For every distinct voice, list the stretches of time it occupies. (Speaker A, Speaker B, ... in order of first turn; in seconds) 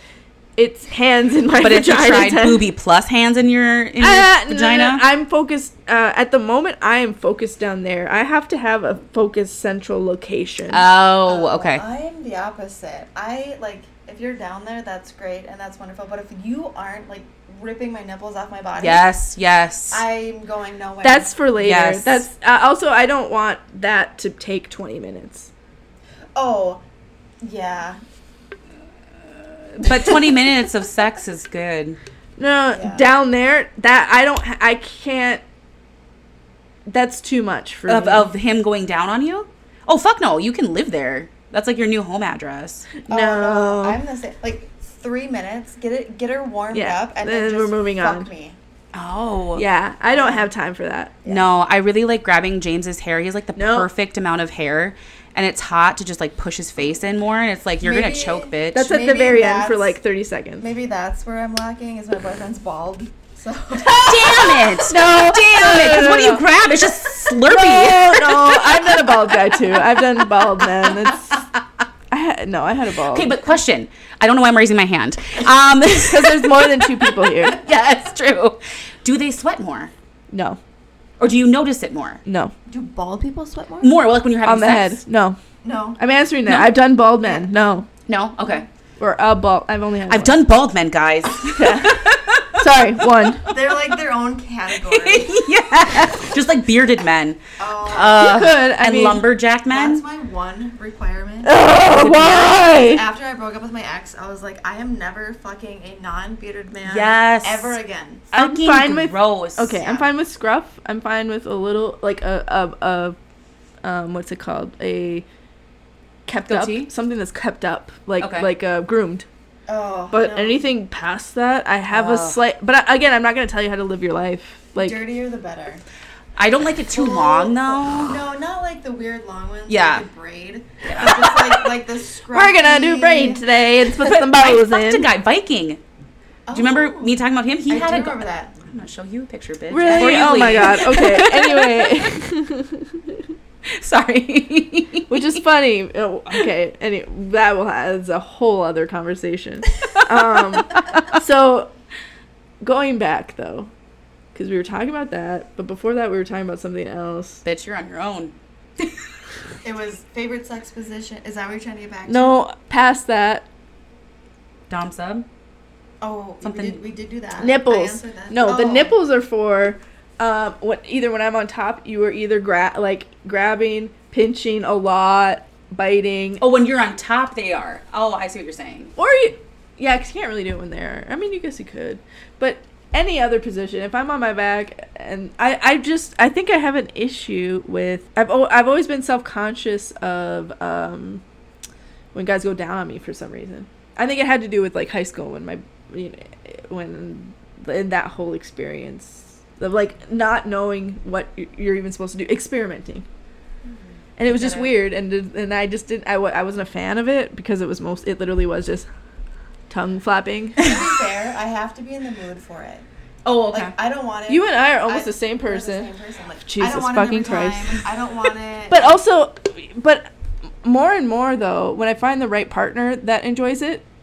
Speaker A: 0.6-2.7, 4.0-10.8, 21.0-25.5, 32.4-35.4, 36.9-38.3, 43.0-44.0, 46.7-48.3, 49.5-51.2, 53.5-53.9, 58.7-60.6, 63.9-66.4, 67.3-71.4, 72.1-73.3, 76.0-77.6, 80.3-80.6, 82.2-82.5, 84.4-85.4, 86.0-87.9, 89.0-90.4, 91.5-92.0, 92.6-93.4, 98.2-99.2, 101.4-103.0, 108.3-113.2, 113.8-115.2, 116.2-119.2, 120.1-125.0, 131.0-131.6, 132.3-135.1, 139.7-143.3, 145.1-151.7, 152.6-153.7, 154.3-157.4, 162.1-163.4, 167.4-176.4, 179.0-191.2, 192.1-203.1, 204.2-208.9, 209.7-210.7, 214.3-215.9, 216.4-217.8, 218.7-220.1, 220.6-223.8
Speaker B: 1.5-5.0, 10.7-11.8, 18.8-20.0, 21.6-22.2, 29.7-32.0, 37.9-42.9, 48.9-49.6, 51.3-58.8, 63.9-69.2, 70.8-71.4, 73.1-79.9, 81.2-82.2, 83.8-85.0, 86.5-86.7, 88.1-88.7, 90.1-92.6, 94.8-100.0, 101.9-102.6, 106.8-107.8, 108.3-109.8, 116.5-116.9, 118.2-118.5, 121.9-122.4, 126.4-128.2, 129.7-130.0, 130.8-131.2, 134.0-135.8, 136.5-142.1, 143.7-145.4, 157.4-158.9, 164.7-165.2, 166.4-166.8, 176.4-178.9, 204.3-204.7, 213.2-213.7
Speaker C: 11.2-19.1, 19.9-21.4, 26.3-26.8, 27.4-28.0, 32.7-33.0, 43.1-48.5, 50.1-50.5, 51.2-51.5, 57.8-60.0, 60.6-64.1, 82.7-84.0, 85.6-86.0, 87.2-87.5, 93.5-95.4, 97.6-98.3, 99.7-108.2, 109.7-110.1, 119.7-120.6, 124.8-125.8, 126.9-133.4, 136.5-138.5, 139.8-140.6, 159.6-162.4, 166.0-169.0, 210.6-212.8, 213.5-218.9